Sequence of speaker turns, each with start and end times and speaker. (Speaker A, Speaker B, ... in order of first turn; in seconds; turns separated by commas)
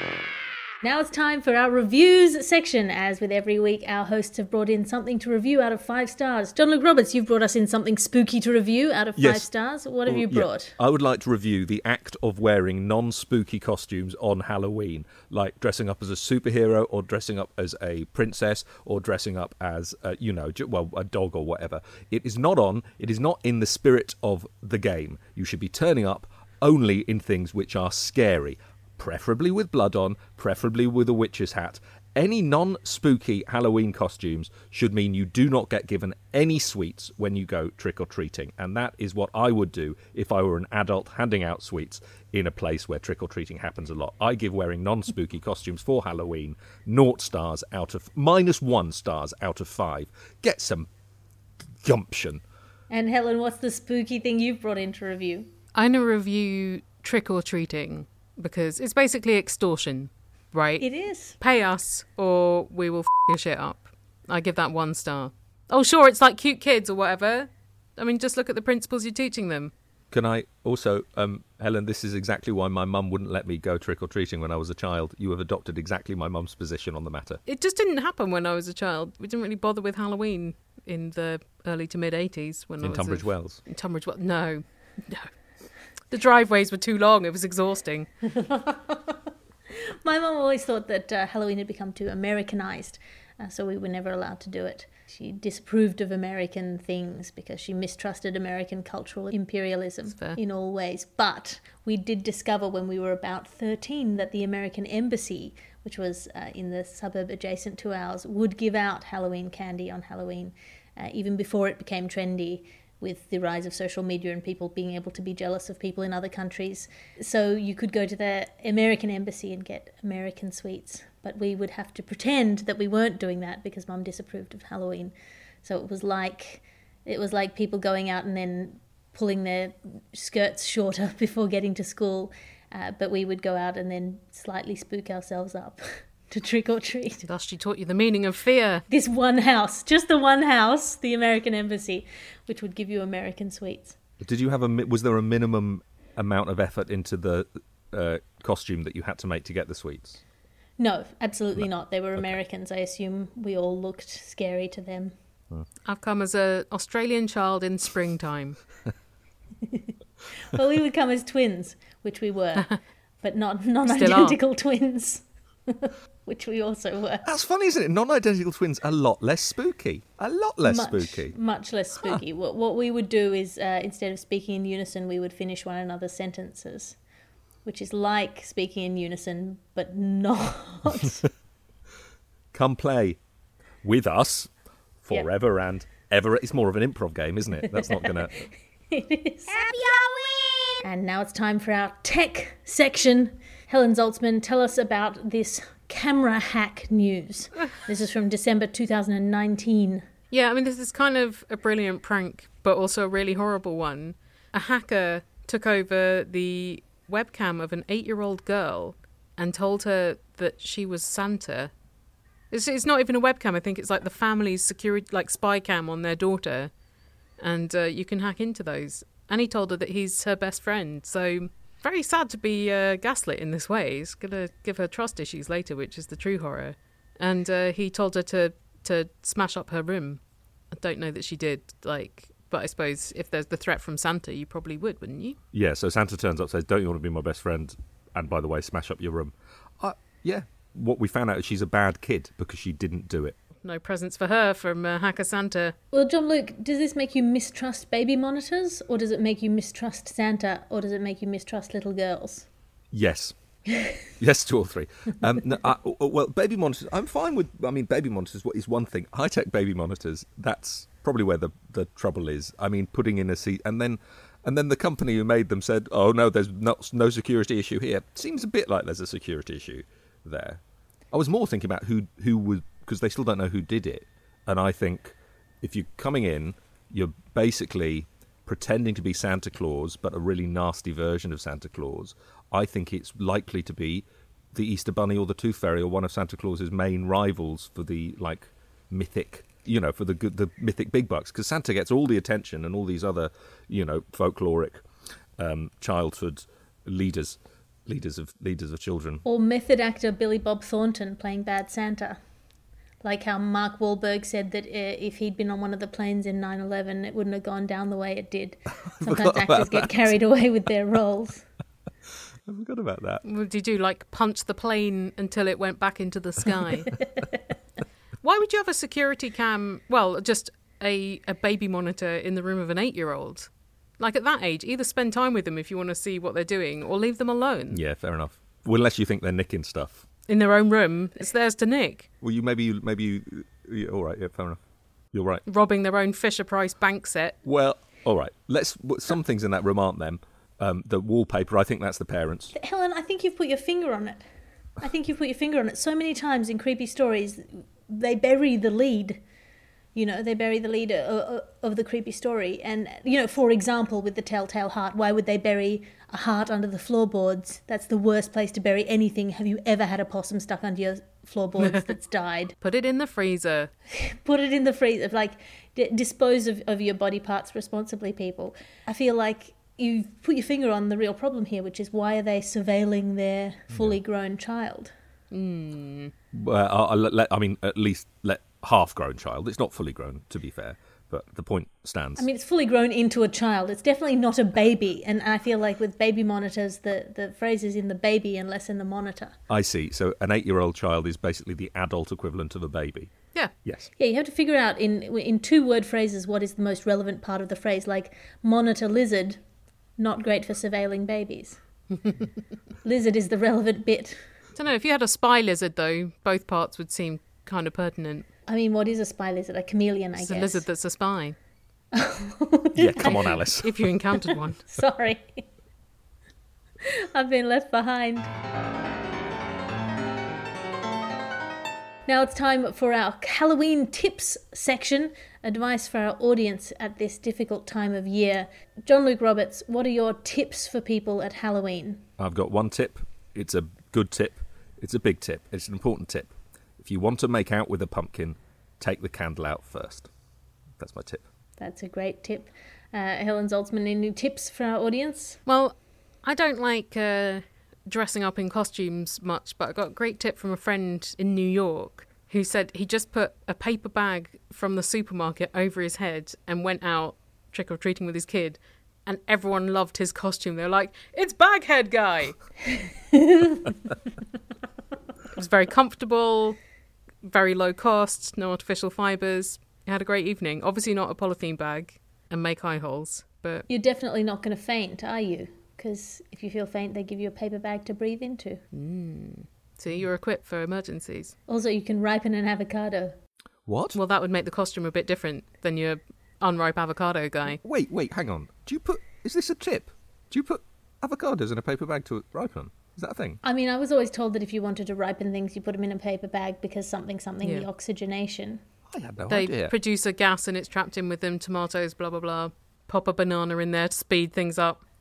Speaker A: 0.8-10.8, Speaker B: 9.2-9.5, Speaker B: 10.1-50.9, Speaker B: 51.8-52.4, Speaker A: 52.9-55.5, Speaker C: 55.7-60.8, Speaker A: 60.8-61.4, Speaker C: 61.4-69.7, Speaker B: 70.1-77.4, Speaker C: 77.5-85.3, Speaker B: 82.8-83.6, Speaker C: 86.1-88.1, Speaker A: 88.4-89.2, Speaker A: 90.0-137.2, Speaker C: 100.1-100.4, Speaker C: 137.2-138.8, Speaker A: 138.9-143.9, Speaker B: 144.2-150.2, Speaker A: 150.8-155.1, Speaker C: 155.8-158.6, Speaker A: 159.6-159.9, Speaker A: 160.5-167.2, Speaker C: 163.8-164.4, Speaker B: 167.2-171.3, Speaker A: 170.6-177.0, Speaker A: 177.6-181.2, Speaker B: 182.5-183.2, Speaker B: 183.8-184.5, Speaker B: 185.0-188.4, Speaker A: 187.7-188.3, Speaker A: 188.9-190.0, Speaker A: 190.8-200.0, Speaker C: 200.3-211.7, Speaker C: 212.5-216.7, Speaker C: 217.4-235.4, Speaker B: 235.5-243.3, Speaker C: 243.6-245.8, Speaker A: 245.9-252.5, Speaker B: 252.9-253.3, Speaker B: 254.2-294.8, Speaker B: 295.4-299.2, Speaker A: 299.2-302.2, Speaker A: 303.0-311.4, Speaker B: 308.9-310.1, Speaker B: 312.5-313.2, Speaker C: 313.2-317.0, Speaker C: 318.2-327.8, Speaker B: 327.7-330.1, Speaker C: 330.3-332.1, Speaker B: 332.2-334.6, Speaker B: 335.1-335.4, Speaker C: 335.4-337.4, Speaker B: 337.4-342.5, Speaker A: 342.5-344.2, Speaker A: 344.8-349.2, Speaker A: 349.9-362.5, Speaker C: 362.6-363.7, Speaker A: 363.9-374.9, Speaker B: 373.7-374.0, Speaker C: 375.3-376.1, Speaker B: 376.3-382.2, Speaker A: 382.2-389.4, Speaker B: 389.5-393.1, Speaker A: 394.0-399.4, Speaker A: 400.0-401.6, Speaker A: 402.8-404.2, Speaker C: 404.6-408.3, Speaker A: 408.5-410.6, Speaker C: 410.1-411.4, Speaker A: 411.9-413.4, Speaker B: 412.8-413.8, Speaker C: 413.0-414.6, Speaker A: 414.7-415.4, Speaker A: 416.8-418.3, Speaker A: 422.1-432.0, Speaker B: 432.2-440.1, Speaker B: 440.8-441.2, Speaker A: 441.6-445.4, Speaker C: 445.4-462.4, Speaker A: 463.1-463.6, Speaker C: 465.3-466.6, Speaker C: 467.2-473.7, Speaker A: 473.7-478.6, Speaker C: 478.7-481.4, Speaker A: 481.5-483.1, Speaker B: 483.7-484.0, Speaker C: 483.9-487.6, Speaker B: 487.6-493.4, Speaker A: 493.4-498.6, Speaker B: 498.9-499.7, Speaker C: 499.3-504.8